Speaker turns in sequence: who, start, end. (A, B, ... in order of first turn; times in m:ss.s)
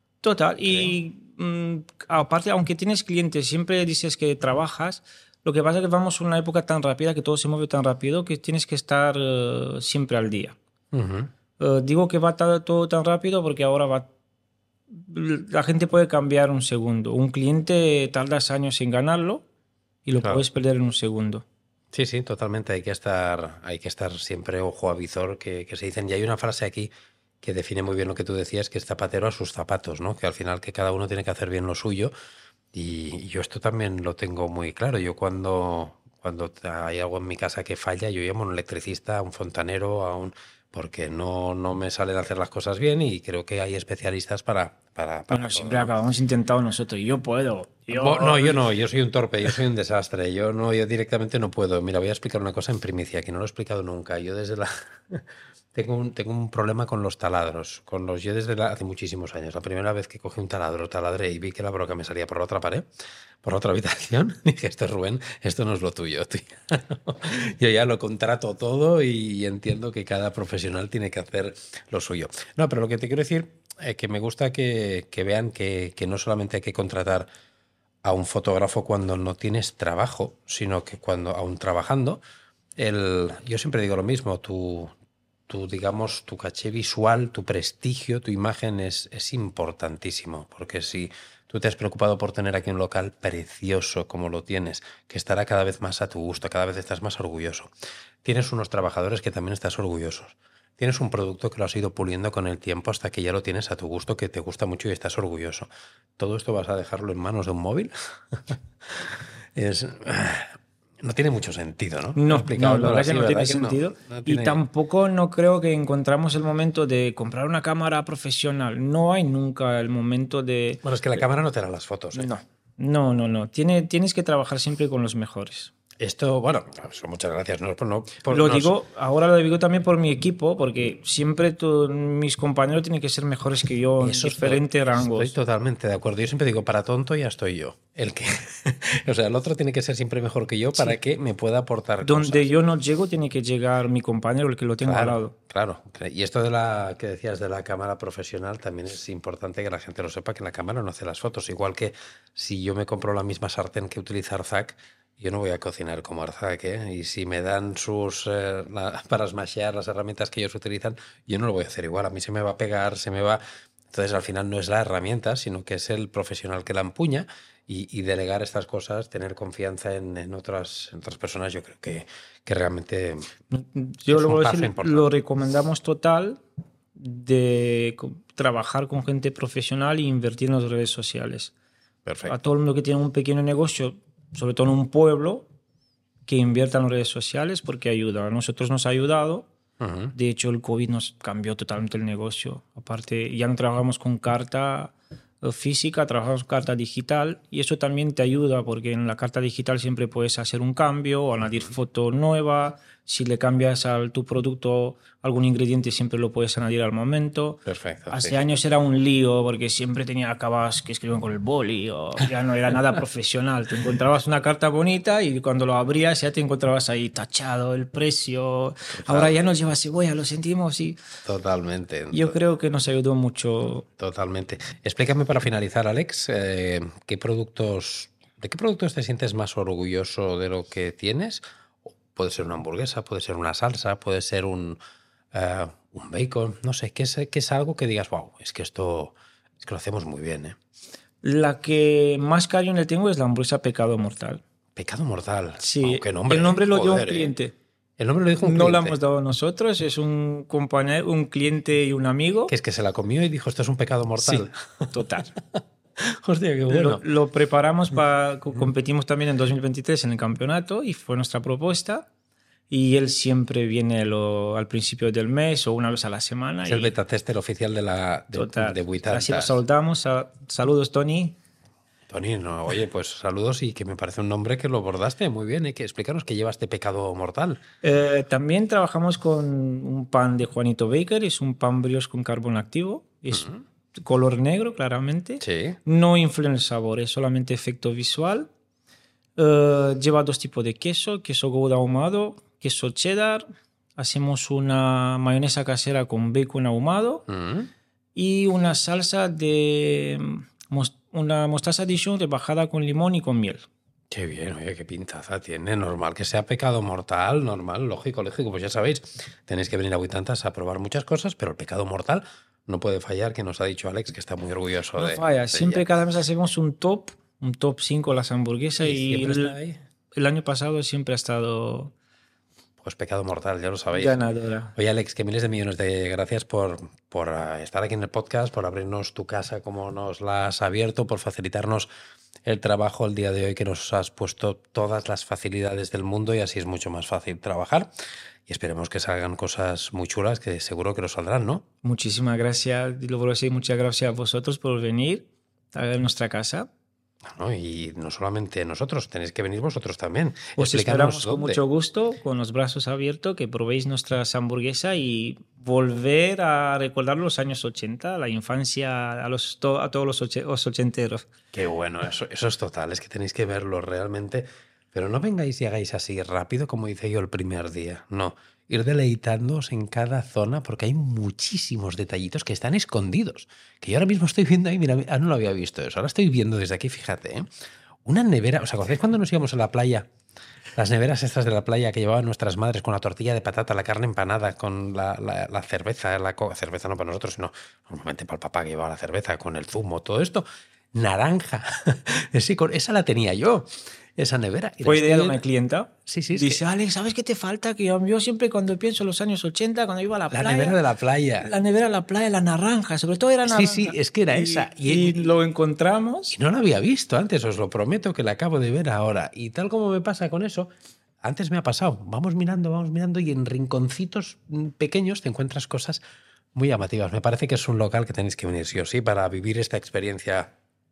0:00.2-0:10.6 A
0:00.6-0:01.0 B
0:10.9-0:11.3 B
0:11.6-0:14.1 A
0:14.9-0:19.4 A
0:20.0-0:21.4 A
0:21.9-0:26.9 B
0:27.4-0:32.1 B
0:32.7-0:45.9 B
0:45.3-0:48.6 A
0:47.9-1:02.9 B
1:03.4-1:17.3 B
1:18.0-1:22.2 B
1:22.8-1:24.9 B
1:25.5-1:37.7 B
1:38.2-1:54.6 B
1:52.2-2:01.2 A
2:00.8-2:02.3 B
2:02.2-2:05.7 A
2:06.0-2:08.8 B
2:08.3-2:15.3 A
2:14.0-2:22.5 B
2:22.0-2:25.3 A
2:24.8-2:43.4 B
2:43.9-2:53.3 B
2:53.5-2:56.4 A
2:54.1-2:55.1 B
2:57.0-3:01.5 A
3:02.0-3:02.4 B
3:02.3-3:05.4 A
3:06.3-3:09.5 A
3:09.8-3:10.1 B
3:10.1-3:41.0 A
3:21.5-3:21.7 B
3:27.7-3:28.4 B
3:38.9-3:39.4 B
3:41.2-3:42.4 B
3:42.1-3:43.9 A
3:44.0-3:54.8 B
3:55.3-4:00.6 B
4:01.2-4:04.4 A
4:04.8-4:07.3 B
4:05.6-4:07.5 A
4:08.0-4:09.0 B
4:08.4-4:12.5 A
4:12.5-4:15.2 B
4:14.2-4:15.3 A
4:16.0-4:17.0 B
4:16.7-4:22.1 A
4:22.7-4:26.9 A
4:26.7-4:29.6 B
4:28.3-4:31.4 A
4:32.1-4:37.6 B
4:37.8-4:48.5 A
4:43.3-4:43.6 B
4:45.4-4:45.8 B
4:49.4-4:53.4 A
4:54.0-4:57.2 A
4:57.3-4:57.7 B
4:58.2-5:03.7 A
5:04.1-5:15.9 B
5:15.0-5:19.6 A
5:18.8-5:19.8 B
5:20.2-5:21.9 A
5:22.8-5:24.2 B
5:23.9-5:24.7 A
5:24.8-5:31.9 B
5:32.4-5:37.9 B
5:38.5-5:41.6 B
5:41.8-5:46.7 A
5:47.4-5:51.6 B
5:50.6-6:01.2 A
6:01.5-6:17.5 B
6:18.0-6:20.1 B
6:20.8-6:35.4 B
6:34.8-6:40.8 A
6:36.1-6:36.6 B
6:40.3-6:41.5 B
6:41.4-6:46.4 A
6:43.5-6:45.4 B
6:46.3-6:50.7 B
6:51.2-6:56.0 B
6:56.5-7:00.5 B